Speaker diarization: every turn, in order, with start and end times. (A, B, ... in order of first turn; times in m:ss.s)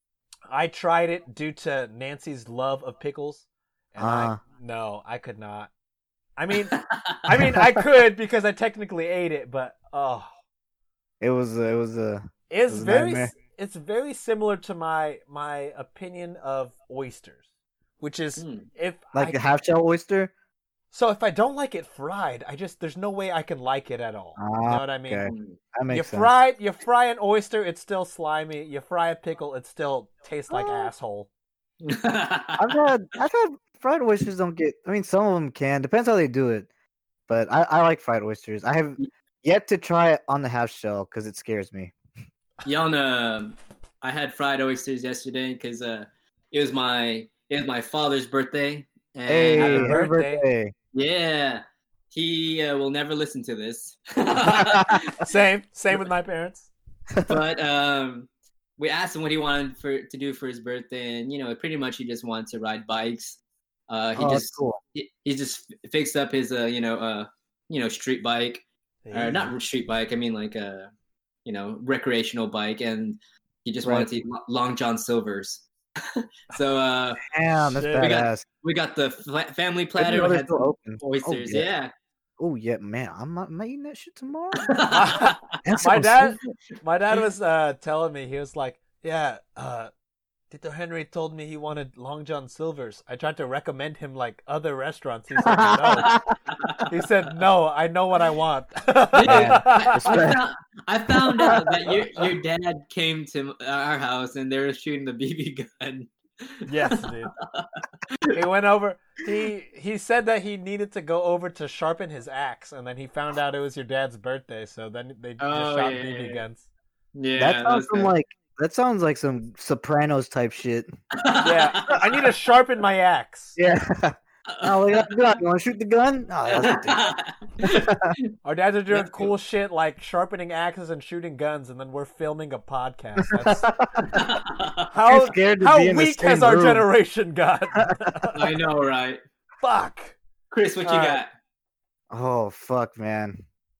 0:00.5-0:05.7 A
0:04.0-0:04.4 B
0:06.4-0:10.3 A
0:06.7-0:07.2 C
0:11.2-0:13.3 B
0:12.5-0:17.4 A
0:18.0-0:19.4 A
0:18.4-0:18.7 C
0:19.1-0:20.3 B
0:20.9-0:25.2 A
0:24.4-0:26.3 B
0:25.2-0:25.6 C
0:25.9-0:31.3 A
0:30.5-0:30.9 B
0:31.8-0:32.8 C
0:32.6-0:36.7 B
0:37.3-0:41.9 B
0:42.6-0:50.0 C
0:49.3-0:50.7 B
0:49.6-0:50.4 A
0:50.9-0:55.2 C
0:54.6-0:55.0 B
0:55.2-0:56.7 A
0:57.2-1:10.9 C
1:04.2-1:04.8 B
1:09.0-1:09.5 A
1:11.4-1:17.2 C
1:13.8-1:14.1 B
1:17.3-1:18.4 B
1:17.5-1:18.1 A
1:18.0-1:21.9 C
1:20.0-1:21.7 B
1:22.4-1:24.7 B
1:24.6-1:25.5 C
1:24.9-1:29.9 A
1:25.6-1:26.4 B
1:30.5-1:36.2 A
1:35.4-1:36.3 B
1:36.5-1:36.9 C
1:36.9-1:40.2 A
1:39.1-1:48.3 C
1:39.2-1:40.4 B
1:41.1-1:41.7 B
1:46.6-1:47.3 A
1:48.3-1:56.6 A
1:55.4-1:56.4 C
1:57.1-1:58.1 C
1:57.4-2:00.9 B
2:01.2-2:02.1 C
2:01.4-2:03.6 A
2:03.6-2:08.1 B
2:04.5-2:05.3 C
2:06.5-2:08.2 C
2:08.4-2:13.7 A
2:08.9-2:09.3 C
2:13.3-2:14.2 B
2:14.0-2:14.9 C
2:14.9-2:18.4 A
2:15.1-2:16.9 B
2:18.3-2:19.2 C
2:19.6-2:20.2 A
2:20.5-2:21.3 C
2:20.8-2:21.2 A
2:22.1-2:23.4 B